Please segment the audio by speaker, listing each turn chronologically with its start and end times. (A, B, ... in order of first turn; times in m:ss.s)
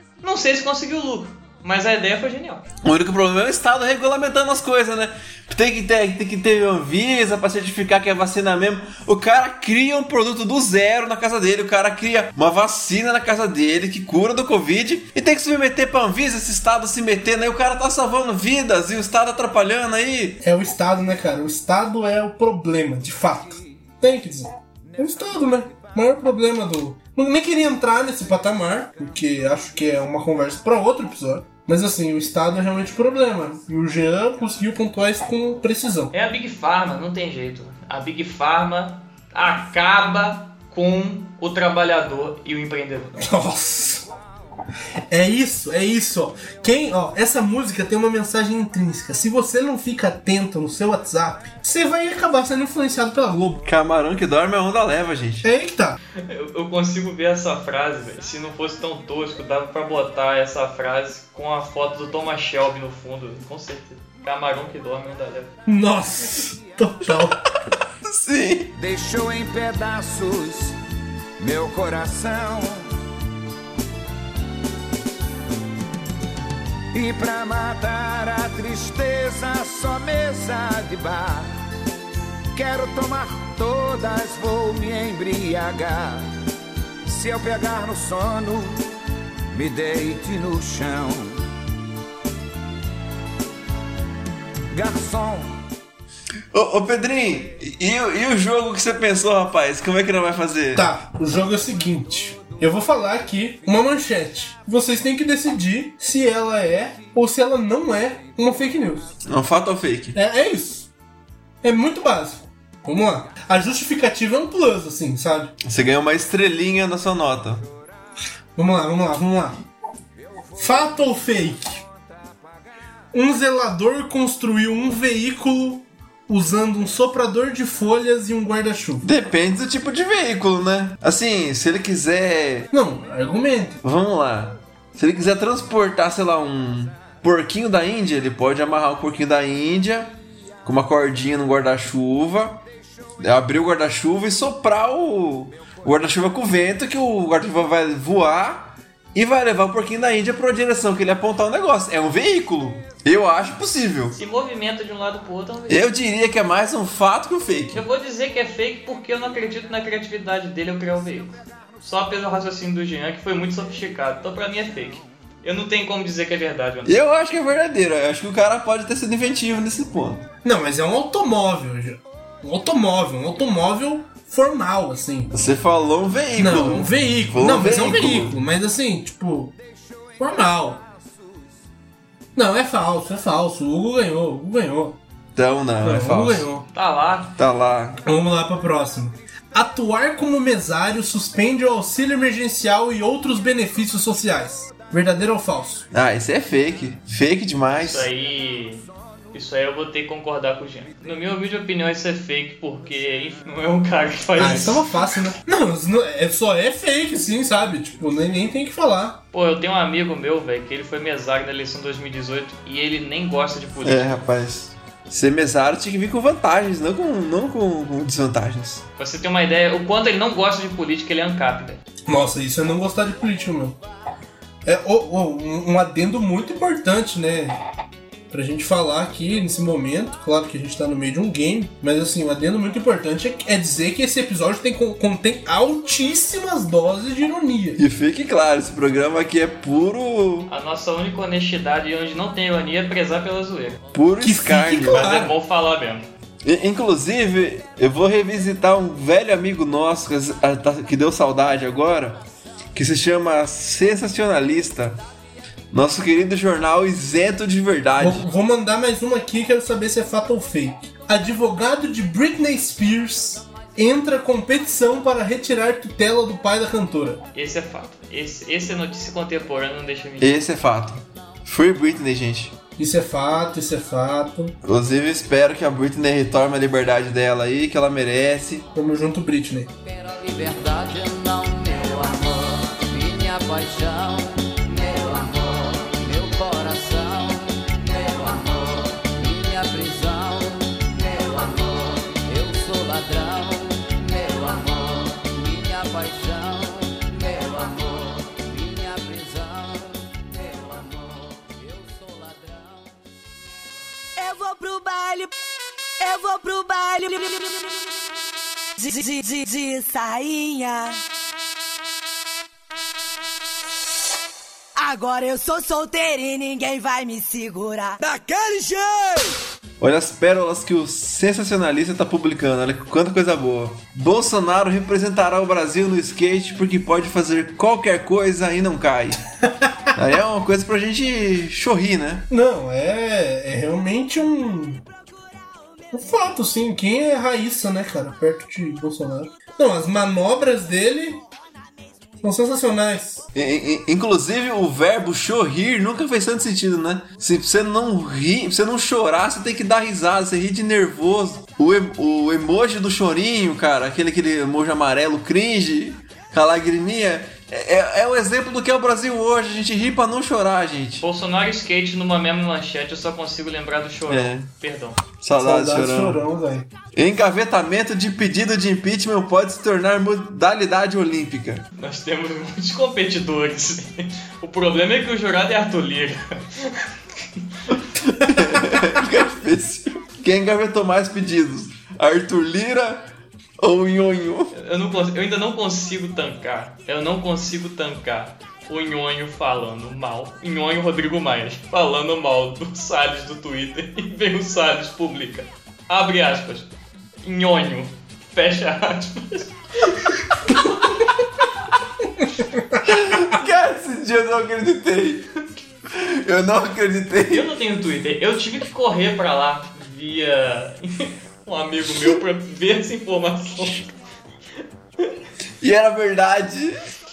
0:00.2-0:02.6 A
0:02.8-0:20.4 B
0:20.4-0:36.1 C
0:36.1-0:43.2 A
0:43.2-0:44.1 C
0:45.1-0:53.6 C
0:53.6-0:55.5 B
0:55.4-0:56.0 C
0:56.3-1:05.5 A
1:05.6-1:07.4 C
1:08.0-1:08.7 B
1:08.8-1:10.7 D
1:11.4-1:12.8 D
1:16.9-1:21.5 D
1:22.5-1:26.2 D
1:27.1-1:28.7 D
1:29.5-1:31.3 D
1:34.7-1:35.5 D
1:36.5-1:40.9 B
1:40.7-1:49.1 C
1:49.2-1:50.1 B
1:50.1-1:50.9 C
1:51.6-1:55.5 C
1:55.6-1:57.6 B
1:58.6-1:59.6 C
2:00.6-2:01.8 C
2:03.1-2:09.1 C
2:09.0-2:12.7 B
2:12.7-2:13.8 C
2:13.8-2:22.6 B
2:23.2-2:34.2 B
2:34.1-2:35.9 A
2:35.7-2:37.8 B
2:37.7-2:47.0 A
2:46.8-2:50.2 B
2:50.4-2:55.3 C
2:55.3-2:58.4 B
2:56.4-2:59.5 C
3:00.2-3:00.8 C
3:02.4-3:05.0 C
3:05.4-3:06.5 B
3:05.8-3:06.6 C
3:06.7-3:07.3 A
3:07.4-3:08.0 B
3:08.0-3:15.9 C
3:15.9-3:18.1 B
3:17.8-3:24.8 A
3:24.4-3:29.2 C
3:29.3-3:34.2 A
3:33.8-3:38.8 B
3:39.0-3:41.8 A
3:42.1-3:43.8 C
3:44.6-3:47.6 C
3:48.3-3:57.8 C
3:57.8-4:00.5 B
4:00.5-4:03.8 A
4:03.9-4:05.2 B
4:04.2-4:05.4 C
4:04.9-4:06.1 A
4:06.4-4:12.2 B
4:12.7-4:15.0 B
4:15.7-4:18.2 B
4:18.0-4:27.2 C
4:27.3-4:30.3 A
4:30.2-4:32.6 B
4:32.8-4:34.5 C
4:34.6-4:38.6 B
4:38.7-4:39.7 C
4:39.8-5:02.9 E
5:04.2-5:05.3 F
5:06.0-5:07.6 F
5:08.8-5:10.9 F
5:14.8-5:17.9 F
5:19.8-5:29.2 B
5:29.9-5:32.3 B
5:32.3-5:34.8 C
5:35.9-5:41.2 C
5:42.2-5:43.2 C
5:43.3-6:01.0 B
6:01.0-6:05.0 A
6:04.1-6:04.5 B
6:05.2-6:06.2 B
6:05.4-6:06.7 C
6:06.9-6:11.6 B
6:11.8-6:16.8 A
6:18.1-6:24.5 B
6:24.5-6:36.7 A
6:37.2-6:40.6 A
6:42.4-6:42.8 C
6:42.8-6:45.3 B
6:45.9-6:47.5 B
6:47.3-6:53.9 A
6:55.6-6:56.8 B